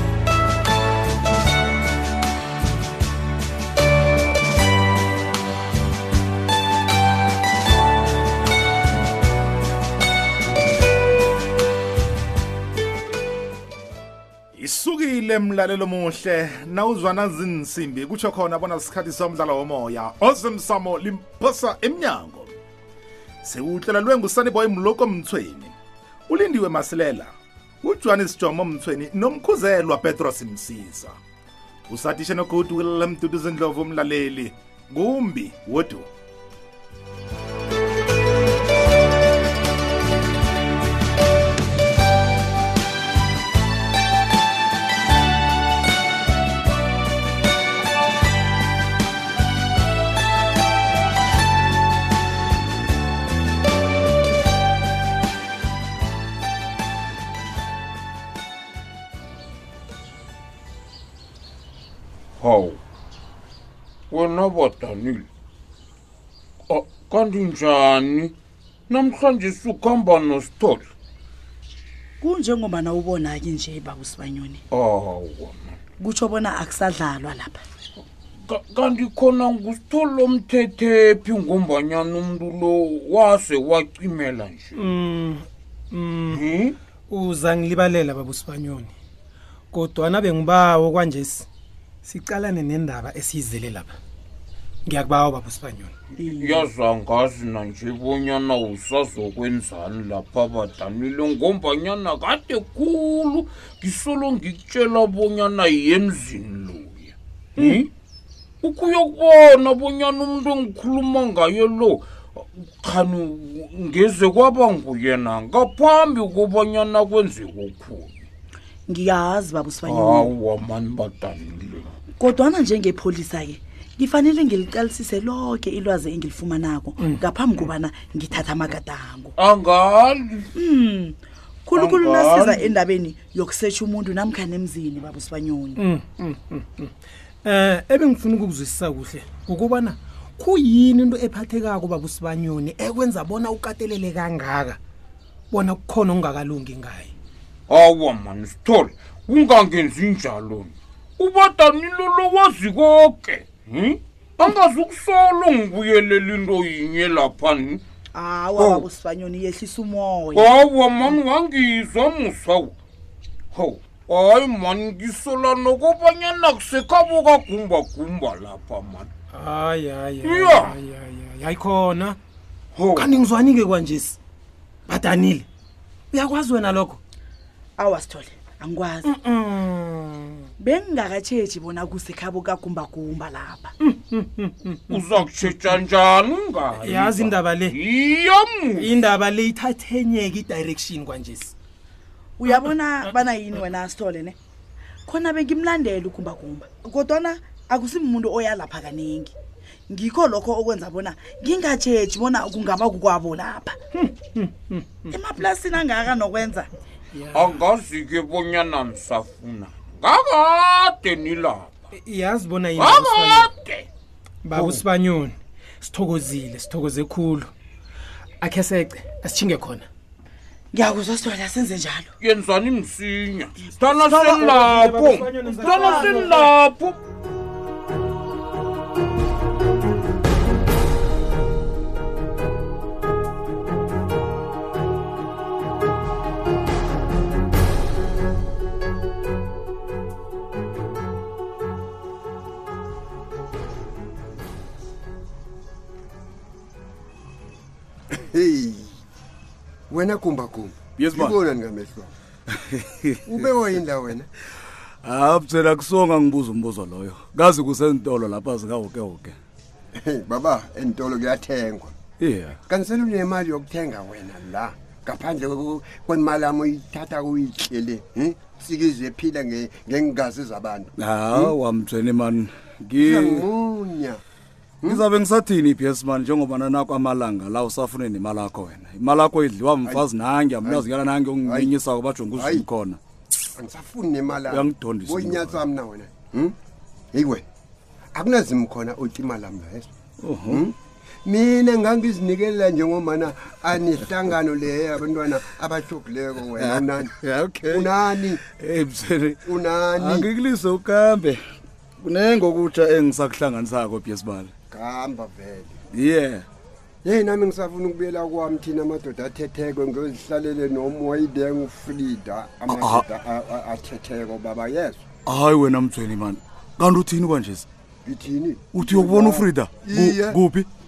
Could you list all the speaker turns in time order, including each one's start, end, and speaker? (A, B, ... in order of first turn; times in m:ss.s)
0:14.6-0:22.5 A
0:23.4-0:25.7 A
0:26.3-0:27.3 A
0:27.8-0:31.2 A
0:31.9-0:36.1 A
1:02.4-1:02.8 B
1:04.1-1:05.2 B
1:06.7-1:08.3 B
1:08.9-1:10.9 B
1:12.2-1:14.6 C
1:14.7-1:15.7 B
1:16.0-1:17.6 C
1:18.5-1:24.8 B
1:24.8-1:26.3 D
1:26.3-1:26.8 B
1:27.1-1:28.9 D
1:29.7-1:31.5 D
1:32.0-1:33.9 D
1:34.9-1:35.9 D
1:36.2-1:47.9 B
1:48.6-1:58.2 B
1:58.9-2:00.3 C
1:59.8-2:01.9 B
2:02.2-2:09.3 C
2:09.4-2:10.5 B
2:10.5-2:15.8 C
2:11.7-2:12.7 B
2:15.8-2:16.6 D
2:17.4-2:24.8 D
2:25.5-2:27.1 D
2:27.7-2:37.8 B
2:38.1-2:40.5 C
2:38.5-2:38.8 B
2:40.3-2:42.7 B
2:43.5-2:49.1 B
2:49.3-2:52.2 D
2:50.2-2:50.8 B
2:52.7-2:53.1 B
2:53.0-2:54.2 D
2:54.9-2:55.4 D
2:56.1-2:57.0 D
2:57.8-2:59.0 C
2:59.3-3:00.1 D
3:00.6-3:03.7 C
3:04.9-3:09.0 B
3:06.8-3:07.7 D
3:08.8-3:11.5 D
3:12.4-3:14.4 C
3:15.1-3:19.3 C
3:19.9-3:23.8 C
3:25.1-3:26.7 C
3:27.3-3:31.9 B
3:32.0-3:33.5 D
3:32.7-3:33.9 B
3:34.4-3:37.5 D
3:34.5-3:34.8 B
3:38.4-3:39.9 D
3:40.7-3:42.1 C
3:42.2-3:47.0 B
3:44.2-3:46.4 D
4:08.1-4:09.0 E
4:09.9-4:12.1 E
4:11.0-4:11.4 F
4:12.5-4:13.4 F
4:13.2-4:14.3 E
4:15.0-4:19.3 F
4:19.9-4:21.9 E
4:22.2-4:22.6 F
4:22.7-4:31.5 E
4:31.0-4:33.5 F
4:33.0-4:34.2 E
4:34.8-4:43.0 F
4:41.4-4:41.7 E
4:42.3-4:42.6 E
4:43.6-4:46.5 E
4:44.5-4:45.7 F
4:47.1-4:47.4 E
4:48.1-4:49.9 E
4:50.2-4:50.7 F
4:50.5-4:50.7 E
4:51.2-4:57.1 E
4:56.6-5:01.4 F
4:57.6-4:58.4 E
4:59.4-5:00.3 E
5:02.0-5:04.5 F
5:04.7-5:05.8 E
5:05.9-5:06.4 F
5:07.0-5:15.0 E
5:12.7-5:13.0 F
5:15.2-5:17.7 F
5:18.0-5:20.4 E
5:18.7-5:20.7 F